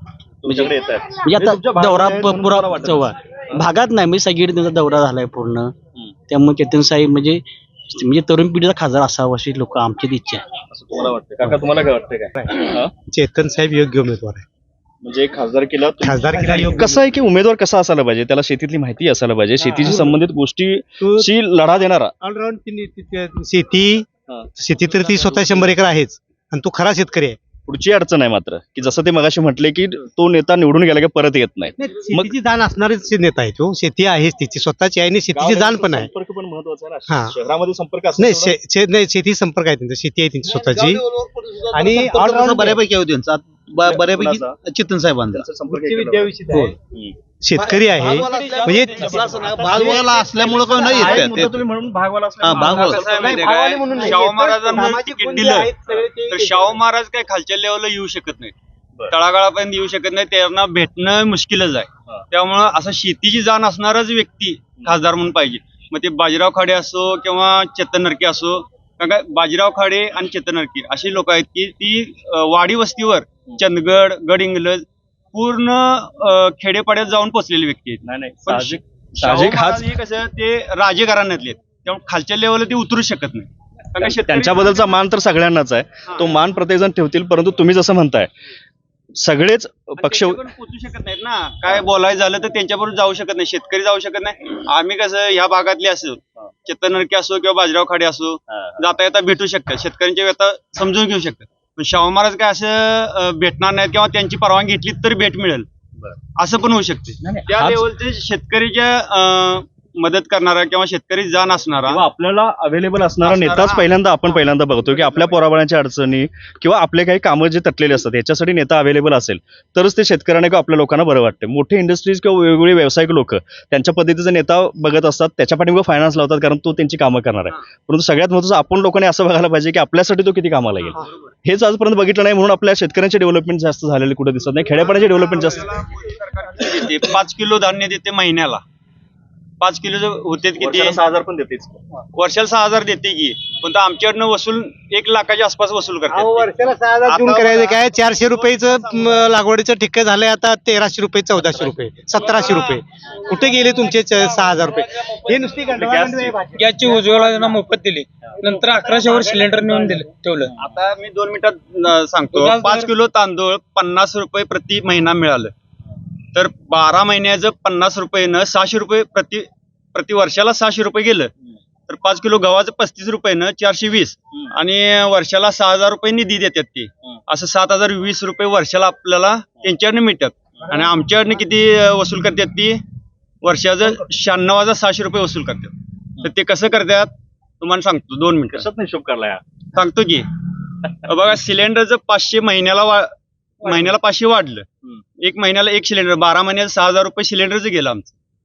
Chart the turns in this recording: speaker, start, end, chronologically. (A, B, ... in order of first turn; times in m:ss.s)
0:00.4-0:03.7 A
0:01.3-0:03.1 B
0:03.9-0:04.3 B
0:06.3-0:07.3 B
0:08.1-0:10.4 B
0:10.7-0:12.9 A
0:12.4-0:14.4 C
0:15.0-0:22.1 A
0:16.0-0:17.0 C
0:19.6-0:20.2 C
0:21.0-0:21.3 C
0:22.2-0:27.4 C
0:27.7-0:32.3 A
0:31.8-0:36.1 C
0:35.3-0:38.6 A
0:37.1-0:37.4 C
0:38.2-0:41.0 C
0:40.5-0:43.5 D
0:41.7-0:42.8 C
0:43.8-0:44.6 A
0:44.0-0:45.4 D
0:45.3-0:46.4 A
0:46.0-0:46.7 C
0:46.9-0:47.2 A
0:47.4-0:51.4 C
0:48.0-0:50.2 A
0:48.1-0:48.8 D
0:49.4-0:51.6 D
0:50.8-0:53.4 A
0:52.5-0:52.8 D
0:52.6-0:55.7 E
0:52.8-0:56.8 C
0:56.3-0:58.5 E
0:59.1-1:24.9 E
1:18.0-1:19.9 A
1:24.0-1:28.3 A
1:29.2-1:30.4 A
1:30.0-1:45.7 E
1:38.5-1:38.8 A
1:46.4-1:52.0 E
1:47.2-1:47.8 A
1:51.9-2:15.7 A
1:53.2-1:53.9 E
1:55.0-1:55.3 E
2:14.9-2:18.6 E
2:19.6-2:21.0 E
2:20.6-2:21.8 A
2:22.2-2:26.5 E
2:26.1-2:36.9 C
2:27.1-2:29.1 E
2:35.7-2:36.4 A
2:36.5-2:40.5 F
2:40.6-2:45.5 E
2:42.3-2:42.9 F
2:46.4-2:51.3 E
2:51.9-3:02.8 E
3:00.6-3:00.9 A
3:03.4-3:08.7 E
3:08.5-3:09.4 A
3:09.7-3:10.3 E
3:11.0-3:13.1 E
3:13.6-3:14.7 E
3:13.6-3:13.9 A
3:15.2-3:18.1 E